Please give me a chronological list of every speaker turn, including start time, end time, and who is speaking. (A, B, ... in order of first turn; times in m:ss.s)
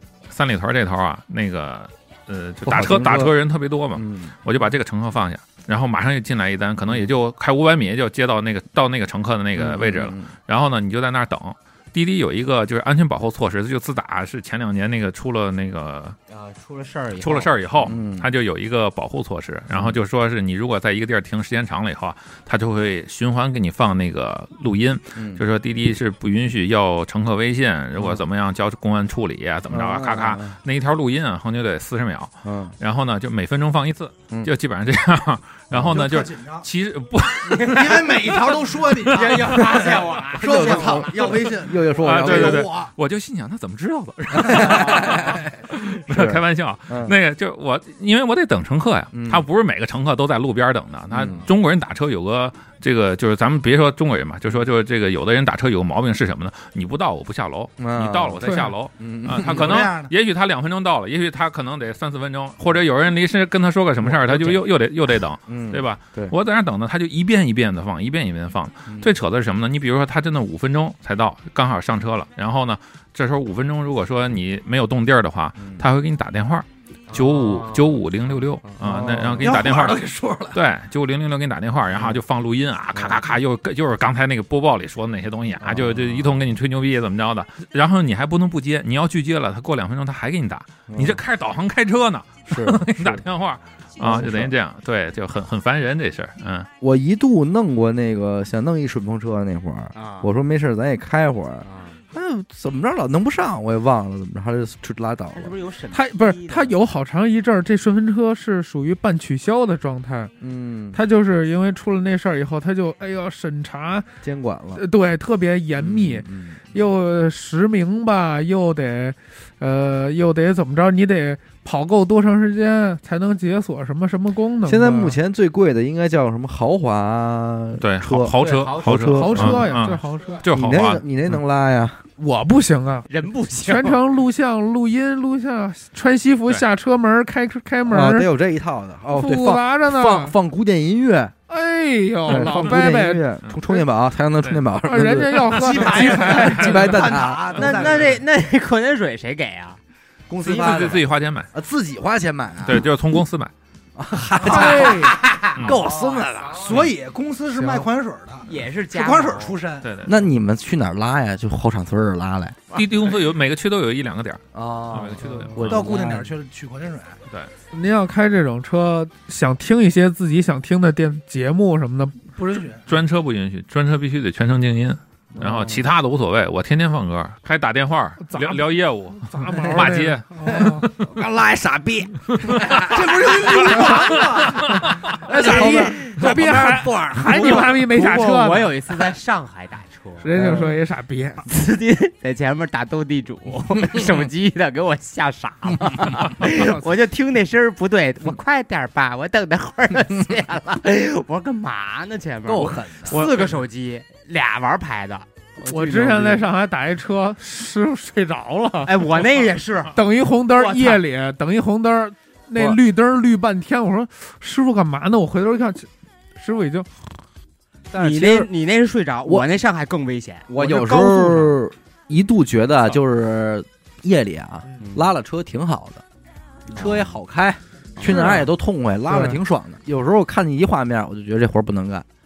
0:00.3-0:16.2 A
0:02.6-0:03.3 B
0:03.9-0:04.3 B
0:09.6-0:10.3 B
0:16.3-0:17.9 C
0:17.2-0:39.6 A
0:17.8-0:18.3 B
0:25.2-0:25.4 B
0:28.0-0:28.2 B
0:29.7-0:30.6 B
0:32.4-0:32.8 B
0:35.8-0:36.6 D
0:37.5-0:37.9 C
0:37.6-0:42.9 D
0:39.1-0:41.3 C
0:40.4-0:42.7 B
0:42.0-1:36.7 A
0:44.3-0:45.5 B
0:46.1-0:47.2 B
0:49.1-0:49.4 B
0:51.1-0:51.5 B
0:57.8-0:59.8 B
0:58.4-0:58.7 E
0:59.4-1:00.1 D
1:04.0-1:04.6 B
1:05.4-1:06.3 B
1:17.1-1:18.0 C
1:18.8-1:19.5 B
1:19.4-1:20.6 D
1:25.6-1:26.3 B
1:30.9-1:31.2 B
1:32.5-1:33.2 B
1:34.0-1:34.5 B
1:36.8-1:45.5 B
1:39.9-1:40.3 C
1:41.6-1:42.0 C
1:45.3-1:46.8 C
1:45.9-1:50.3 E
1:50.4-1:51.0 B
1:50.9-1:54.0 E
1:54.2-1:54.8 B
1:54.8-2:05.2 E
1:55.8-1:56.6 B
2:04.6-2:09.6 B
2:07.8-2:11.0 A
2:08.4-2:09.6 C
2:09.1-2:10.4 E
2:10.5-2:12.0 B
2:12.2-2:18.3 E
2:13.1-2:14.0 C
2:17.9-2:21.3 B
2:19.1-2:20.3 E
2:21.5-2:23.2 E
2:22.3-2:27.9 B
2:24.8-2:26.9 E
2:25.5-2:28.2 D
2:27.5-2:29.8 C
2:30.3-2:32.9 B
2:30.4-2:31.5 A
2:32.6-2:33.5 A
2:34.0-2:36.7 B
2:34.4-2:39.9 D
2:34.4-2:35.1 E
2:35.5-2:35.8 A
2:35.7-2:36.6 C
2:37.6-2:37.8 E
2:38.4-2:39.6 C
2:39.8-2:40.1 A
2:40.0-2:42.6 B
2:42.7-2:45.9 A
2:44.5-2:46.2 B
2:45.6-2:47.2 D
2:47.7-2:52.3 E
2:52.3-2:52.9 D
2:52.9-3:01.1 A
2:55.4-2:55.8 B
2:58.2-2:58.6 E
2:59.2-3:00.9 E
3:00.5-3:03.0 B
3:02.3-3:02.9 A
3:02.7-3:06.3 D
3:03.6-3:04.2 E
3:04.3-3:05.0 A
3:05.2-3:07.8 B
3:05.3-3:08.7 E
3:05.4-3:06.2 C
3:07.2-3:10.3 C
3:10.2-3:11.4 E
3:10.3-3:10.7 B
3:11.4-3:26.4 C
3:13.8-3:14.1 B
3:15.6-3:16.2 B
3:22.4-3:23.3 B
3:25.6-3:29.0 E
3:28.8-3:29.9 C
3:29.9-3:37.0 E
3:30.5-3:31.0 C
3:37.9-3:38.5 B
3:37.9-3:40.5 C
3:40.5-3:46.0 B
3:40.8-3:41.4 D
3:44.8-3:45.1 C
3:46.7-3:52.0 B
3:46.7-3:47.2 C
3:48.0-3:48.3 C
3:48.1-3:48.5 E
3:49.1-3:49.4 E